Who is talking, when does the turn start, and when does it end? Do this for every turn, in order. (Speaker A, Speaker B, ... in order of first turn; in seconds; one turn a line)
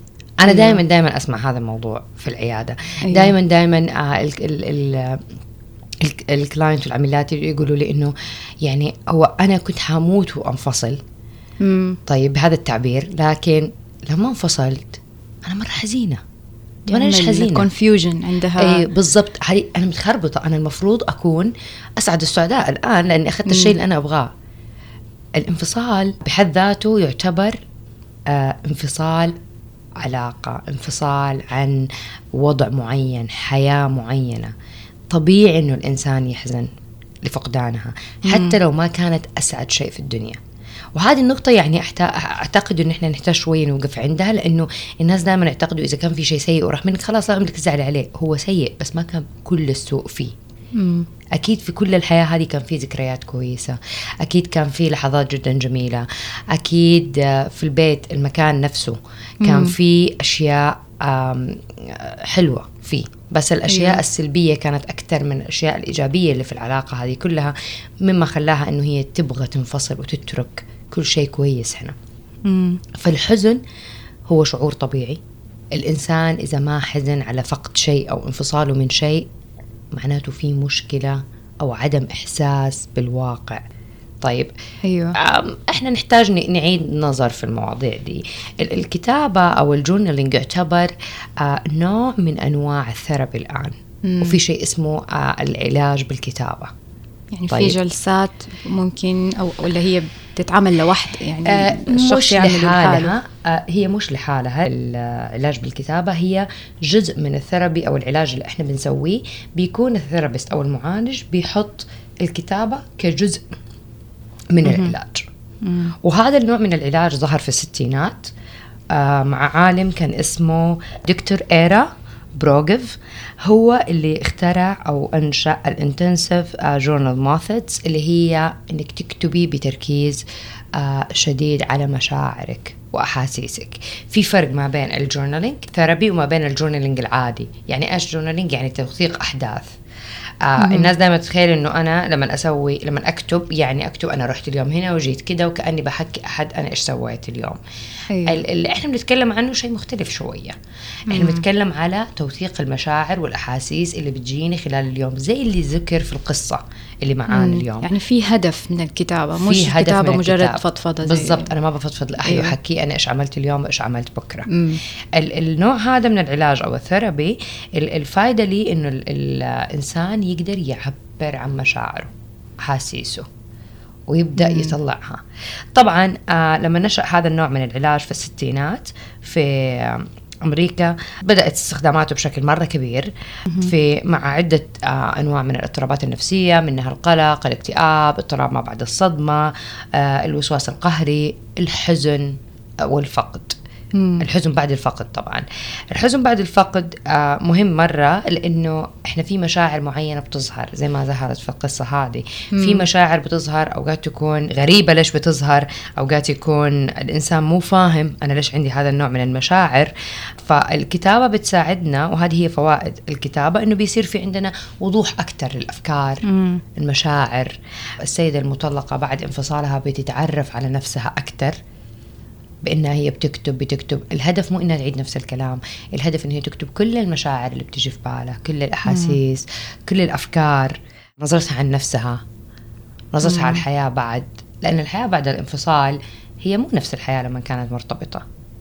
Speaker A: 0.4-5.2
Speaker B: 0.5-0.8
Speaker B: 3.0-3.4
Speaker A: 6.0-11.0
Speaker B: 11.6-12.0
Speaker A: 12.1-16.2
Speaker B: 16.9-18.9
Speaker A: 16.9-17.7
Speaker A: 18.6-24.3
Speaker B: 23.5-23.8
Speaker A: 25.4-27.6
Speaker A: 28.3-29.4
Speaker A: 30.0-34.5
Speaker A: 35.1-36.7
Speaker A: 37.2-40.4
Speaker B: 38.2-38.6
Speaker A: 41.0-50.3
Speaker B: 50.8-51.1
Speaker A: 51.3-71.9
Speaker B: 59.4-59.8
Speaker B: 63.7-64.0
Speaker B: 72.4-72.8
Speaker A: 72.9-73.6
Speaker A: 74.3-75.2
Speaker A: 75.7-79.3
Speaker A: 79.9-83.6
Speaker A: 84.2-84.5
Speaker B: 84.8-85.2
Speaker A: 85.1-96.7
Speaker B: 94.0-94.4
Speaker B: 97.3-103.1
Speaker A: 97.5-97.8
Speaker A: 101.4-113.5
Speaker A: 114.5-115.3
Speaker B: 114.6-114.9
Speaker B: 115.6-115.9
Speaker A: 116.0-118.3
Speaker A: 118.9-139.8
Speaker A: 140.4-147.6
Speaker B: 140.6-140.9
Speaker B: 148.1-148.4
Speaker A: 148.2-150.6
Speaker B: 151.1-151.4
Speaker A: 151.1-157.9
Speaker B: 157.3-161.5
Speaker A: 159.4-173.3
Speaker B: 162.2-162.6
Speaker B: 164.5-164.8
Speaker A: 174.1-193.6
Speaker B: 174.4-174.7
Speaker B: 193.9-194.2
Speaker A: 194.2-216.2
Speaker B: 202.5-202.9
Speaker B: 216.2-216.6
Speaker A: 216.8-221.6
Speaker A: 222.6-232.2
Speaker B: 228.9-229.2
Speaker A: 233.1-238.2
Speaker B: 233.2-233.6